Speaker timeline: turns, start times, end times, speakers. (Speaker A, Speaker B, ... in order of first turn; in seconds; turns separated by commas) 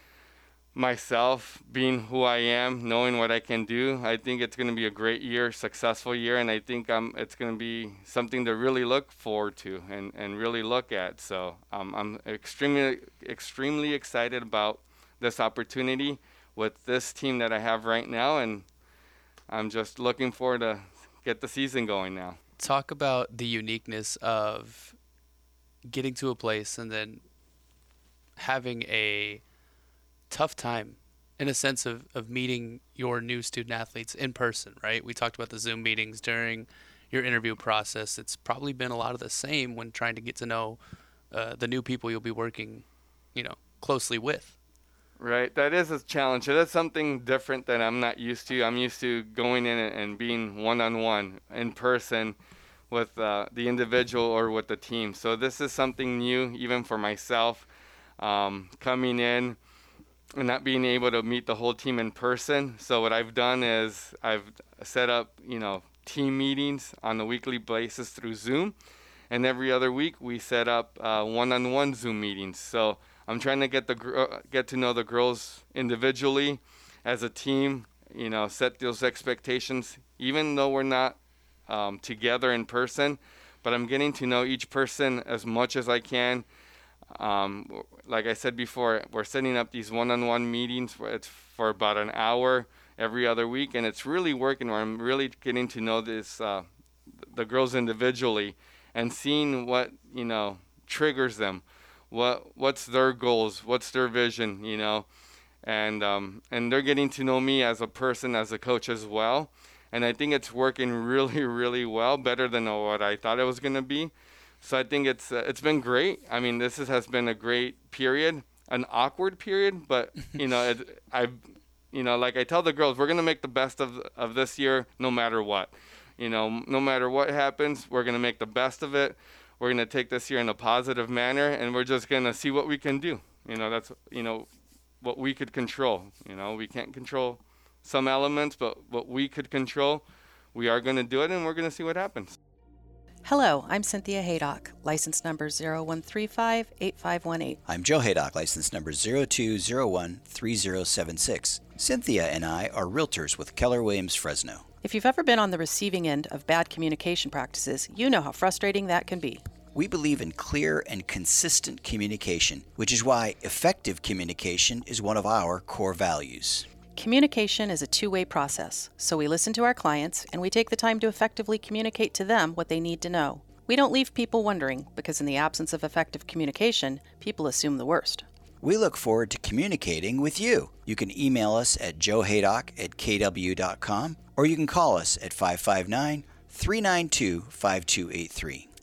Speaker A: 0.8-18.6, Speaker A: 19.5-22.4, Speaker B: 22.6-25.0, Speaker B: 25.9-27.2, Speaker B: 28.4-29.4, Speaker B: 30.3-40.8, Speaker B: 41.3-44.6, Speaker A: 45.2-52.4, Speaker A: 52.9-57.7, Speaker A: 58.2-59.6, Speaker A: 60.4-68.7, Speaker A: 69.3-86.5, Speaker A: 87.1-96.7, Speaker A: 97.2-105.1, Speaker A: 105.6-121.4, Speaker A: 121.9-134.5, Speaker A: 135.0-142.4, Speaker C: 143.2-147.6, Speaker D: 147.7-154.7, Speaker C: 154.8-159.4, Speaker D: 159.7-166.7, Speaker C: 166.9-178.2, Speaker D: 178.6-188.7